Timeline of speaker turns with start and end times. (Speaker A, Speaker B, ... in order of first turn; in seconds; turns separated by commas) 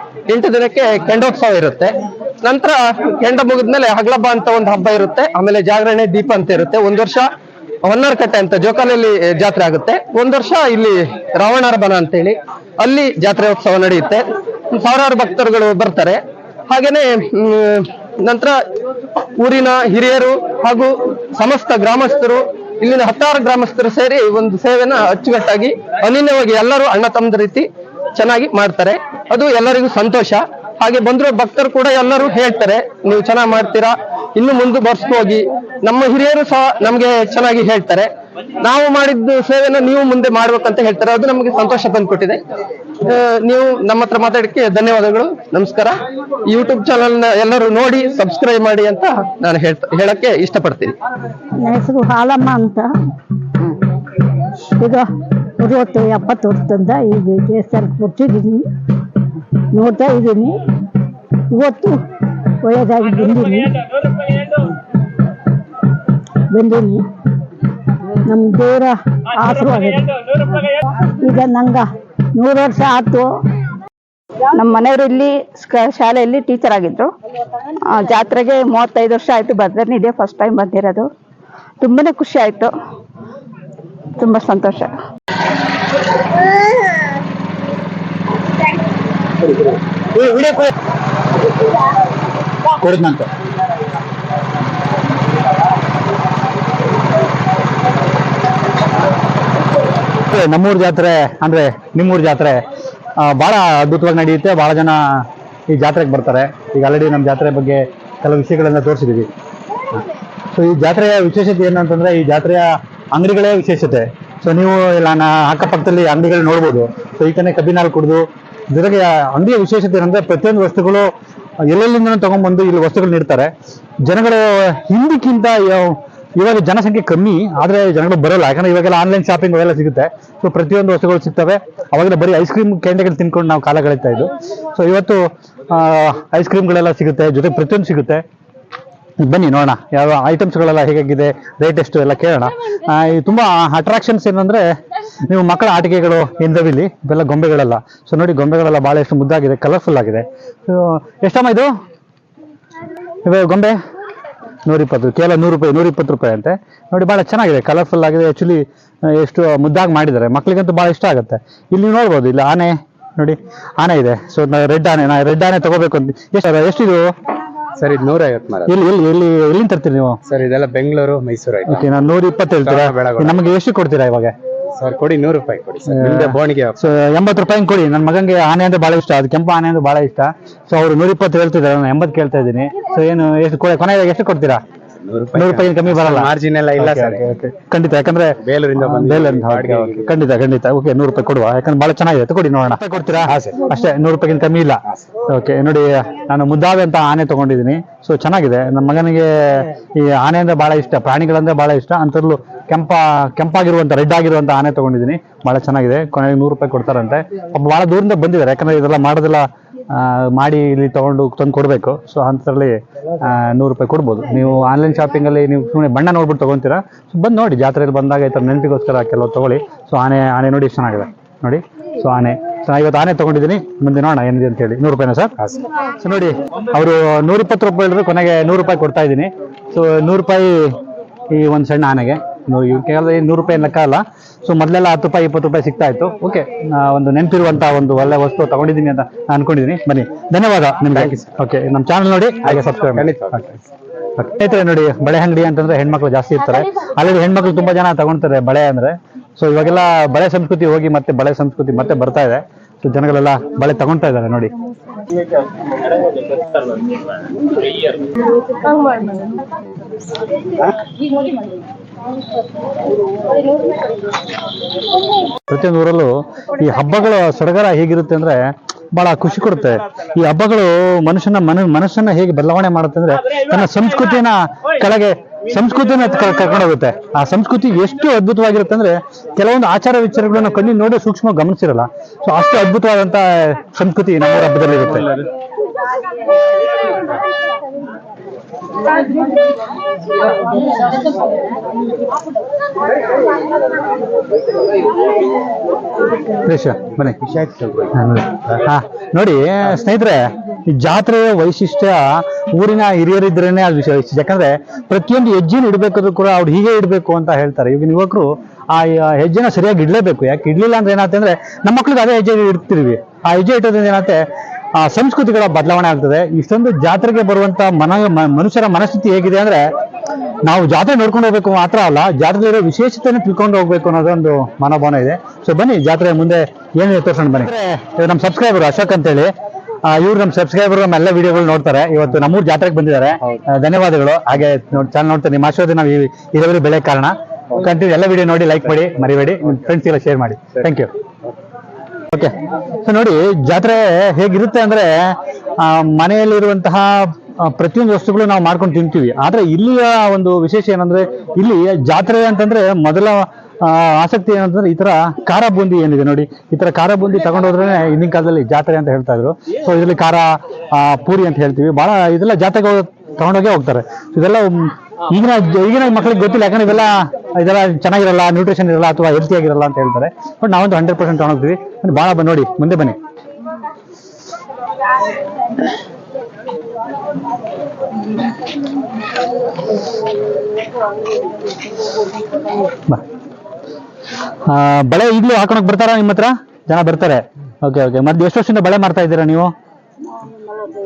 Speaker A: 0.3-7.3, Speaker A: 7.8-18.6, Speaker A: 19.4-38.1, Speaker A: 38.6-42.4, Speaker A: 43.0-45.9, Speaker A: 46.5-51.0, Speaker B: 51.6-52.9, Speaker B: 54.8-55.1, Speaker B: 55.6-58.7, Speaker B: 59.7-60.6, Speaker B: 61.5-62.0, Speaker B: 62.6-63.7, Speaker B: 66.5-67.0, Speaker B: 68.3-70.0, Speaker B: 71.2-73.3, Speaker C: 74.6-77.1, Speaker C: 77.9-81.1, Speaker C: 81.8-82.7, Speaker C: 84.2-85.0, Speaker D: 90.2-90.6, Speaker D: 92.8-93.3, Speaker D: 100.3-102.6, Speaker D: 103.2-109.3, Speaker D: 110.5-121.1, Speaker D: 121.7-123.5, Speaker D: 124.0-138.2, Speaker D: 139.2-144.6, Speaker D: 145.3-151.7, Speaker D: 153.2-153.8, Speaker D: 154.7-167.1, Speaker E: 167.8-168.8, Speaker D: 168.7-170.2, Speaker E: 170.3-171.9, Speaker D: 171.7-174.3, Speaker E: 172.6-173.5, Speaker E: 174.8-176.8, Speaker D: 175.9-184.6, Speaker E: 185.0-187.3, Speaker D: 185.3-194.8, Speaker E: 188.4-190.2, Speaker E: 193.3-193.7, Speaker D: 195.3-225.3, Speaker D: 226.0-230.8, Speaker D: 231.3-243.4, Speaker E: 240.9-241.3, Speaker E: 242.4-243.6, Speaker D: 244.2-254.5, Speaker D: 265.5-268.4, Speaker D: 268.9-285.1, Speaker D: 296.5-297.2, Speaker E: 297.3-297.9, Speaker D: 298.0-314.2, Speaker D: 314.8-319.7, Speaker D: 320.5-329.3, Speaker D: 329.9-340.9, Speaker D: 342.1-346.9, Speaker D: 347.4-373.0, Speaker D: 384.5-389.5